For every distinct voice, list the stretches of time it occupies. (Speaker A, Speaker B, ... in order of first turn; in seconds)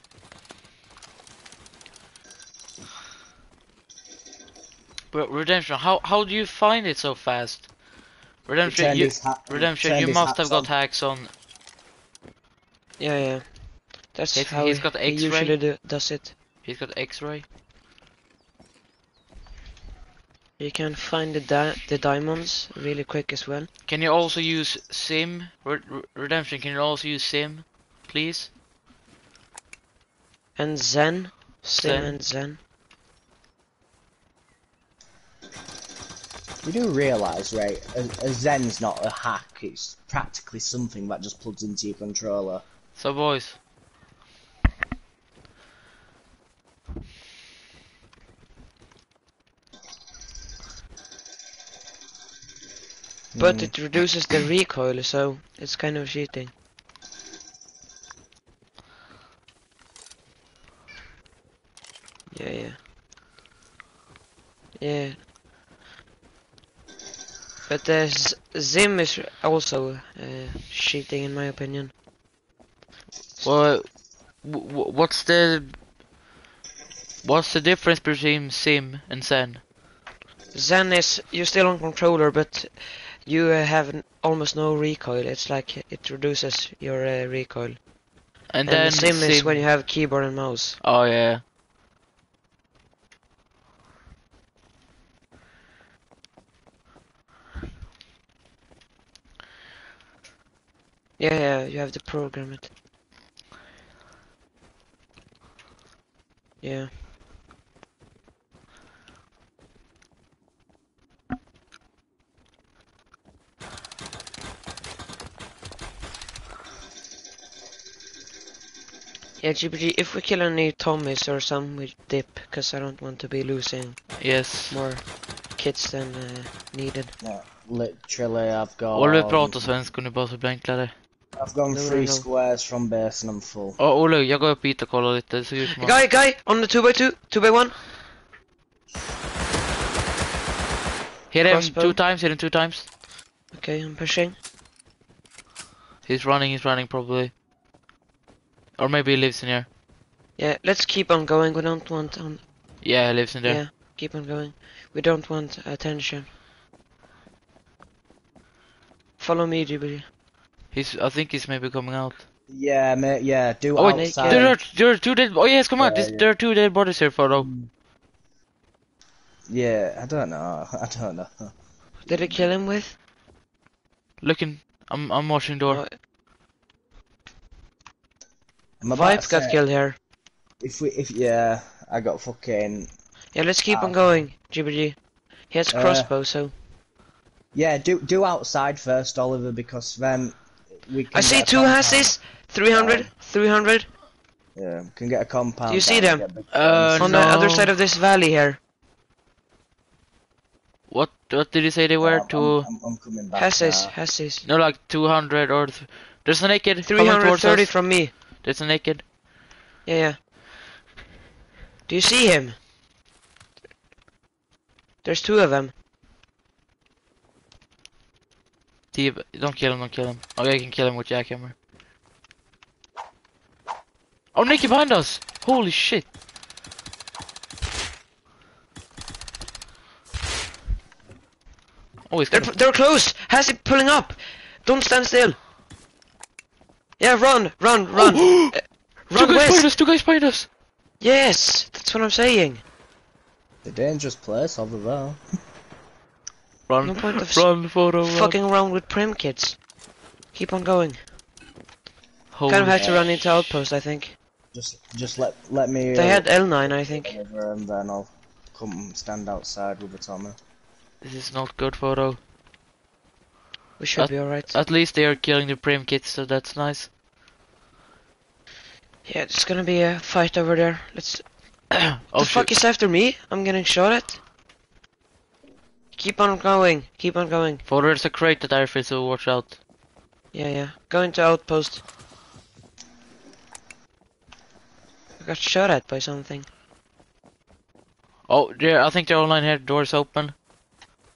Speaker A: 5.1-11.3, 14.3-15.6, 16.6-17.5, 23.9-28.5, 31.8-32.2, 42.9-43.6, 73.4-75.8, 77.2-79.6, 88.5-89.7, 90.8-91.4, 124.2-124.8, 128.9-130.9, 133.8-136.0, 141.3-142.9, 146.1-147.3, 148.8-149.7, 152.8-153.6, 160.7-162.2, 164.1-167.5, 174.2-175.8, 196.5-197.8, 200.9-202.7, 204.4-209.1, 218.9-221.5, 224.3-226.1, 232.1-232.5, 238.0-238.5, 239.1-240.5, 246.7-248.4, 252.3-253.6, 261.0-262.2, 264.0-266.9, 271.7-272.5, 277.6-279.6, 288.3-290.3
Speaker B: 8.7-10.7, 36.6-42.6, 53.3-53.7, 127.2-129.7, 131.4-133.8, 162.5-164.6, 165.8-166.3, 167.4-167.7, 169.5-171.5, 172.1-172.5, 178.8-179.6, 180.6-182.9, 183.7-184.3, 185.7-186.1, 187.5-192.2, 192.7-193.1, 194.5-197.3, 202.0-203.9, 243.6-245.2, 252.7-253.0, 254.5-260.4
Speaker C: 13.0-16.3, 20.6-23.7, 30.6-32.6, 53.4-56.5, 62.3-62.8, 64.8-65.2, 67.7-71.9, 80.5-87.9, 88.6-90.8, 101.2-102.7, 106.6-106.9, 119.4-127.1, 131.7-132.2, 135.7-137.8, 141.4-142.0, 143.5-144.3, 150.3-152.8, 153.4-156.3, 159.2-160.1, 163.8-164.5, 172.0-172.9, 175.7-176.0, 178.8-180.0, 183.3-186.5, 191.1-193.9, 195.7-196.2, 197.0-198.6, 203.3-204.4, 206.8-208.1, 209.8-210.2, 211.9-212.6, 215.0-215.7, 232.3-235.4, 237.0-239.7, 241.0-242.6, 246.8-249.6, 250.3-251.0, 252.5-254.2, 255.9-257.2, 263.8-264.5, 269.0-274.2, 275.9-277.6, 280.3-281.8, 285.2-286.5